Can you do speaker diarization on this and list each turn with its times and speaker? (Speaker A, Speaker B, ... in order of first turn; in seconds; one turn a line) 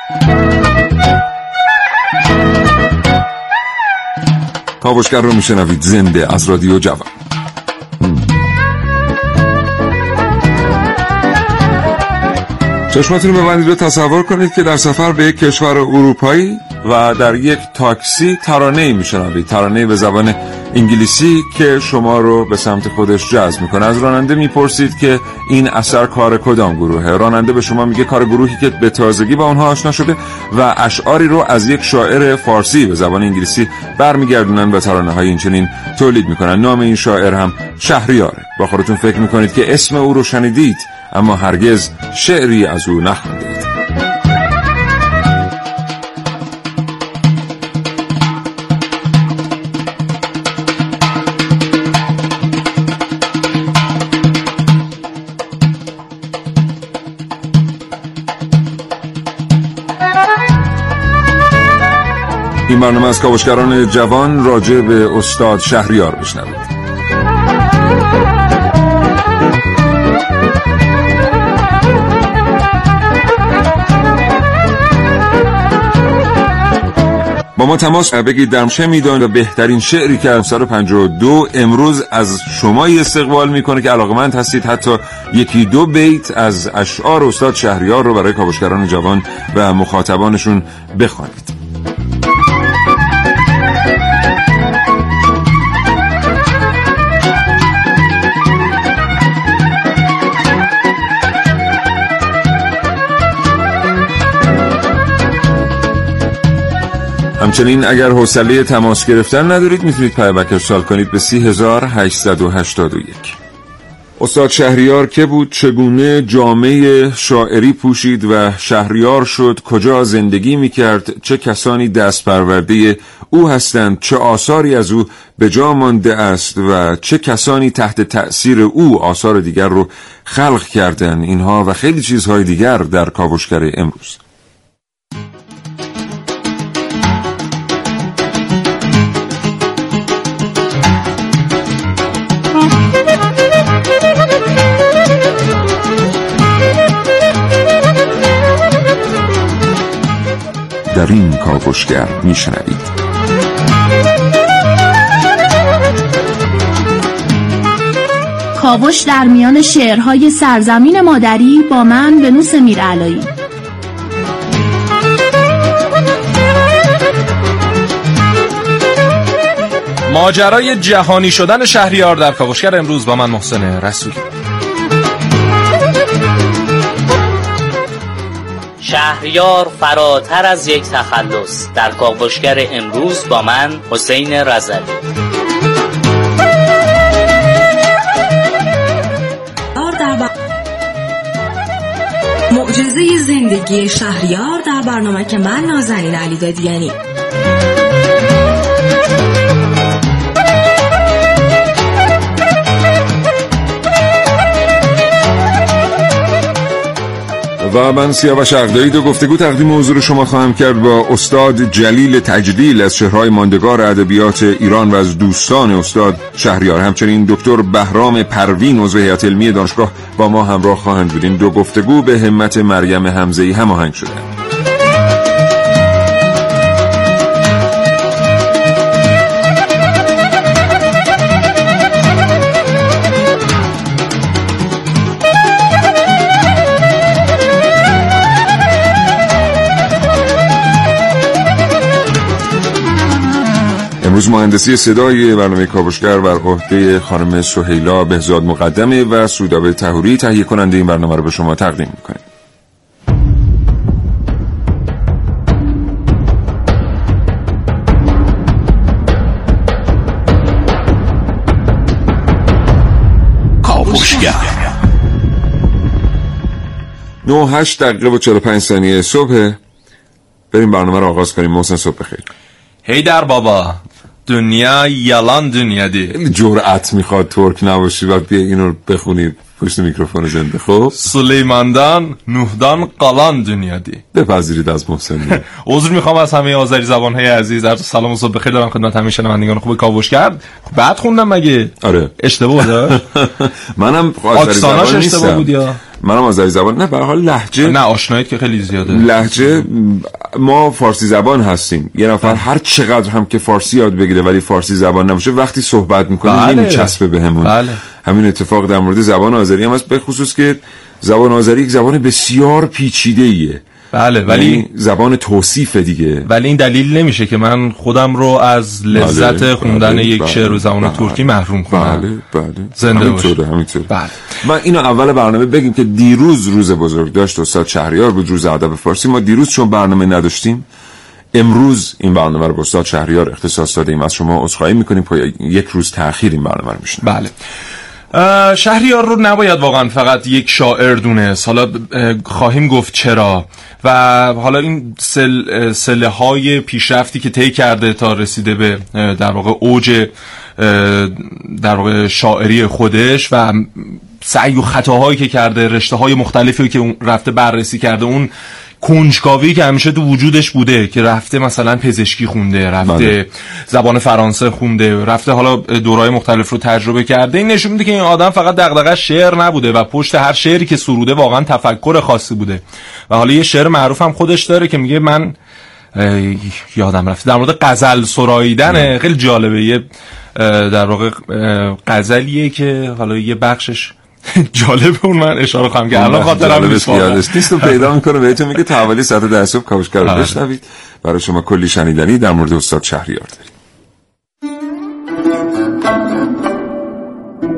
Speaker A: 4.8-7.1
Speaker A: 12.9-43.7
Speaker A: 62.7-66.7
Speaker A: 77.5-91.5
Speaker A: 107.4-113.3
Speaker A: 114.2-134.2
Speaker A: 150.9-152.9
Speaker B: 158.5-163.3
Speaker C: 170.1-174.2
Speaker D: 178.8-185.0
Speaker E: 189.8-190.3
Speaker E: 192.5-197.0
Speaker A: 207.6-224.3
Speaker A: 244.0-252.2
Speaker C: 263.6-264.5
Speaker A: 267.2-269.6
Speaker A: 270.5-272.2
Speaker C: 272.9-276.1
Speaker A: 276.1-280.9
Speaker C: 280.9-284.0
Speaker A: 284.1-285.4
Speaker C: 285.3-293.0
Speaker A: 291.8-297.8
Speaker C: 294.4-295.8
Speaker C: 297.6-299.6
Speaker A: 298.9-313.6
Speaker C: 306.2-307.8
Speaker C: 313.9-314.6
Speaker A: 314.2-316.2
Speaker C: 316.3-322.0
Speaker A: 318.9-330.6
Speaker C: 322.8-323.4
Speaker C: 323.9-324.2
Speaker A: 331.3-337.1
Speaker C: 337.0-337.3
Speaker C: 338.1-375.3
Speaker A: 362.8-363.1
Speaker C: 375.9-387.9
Speaker A: 378.7-378.9
Speaker A: 385.9-393.5
Speaker C: 390.0-390.4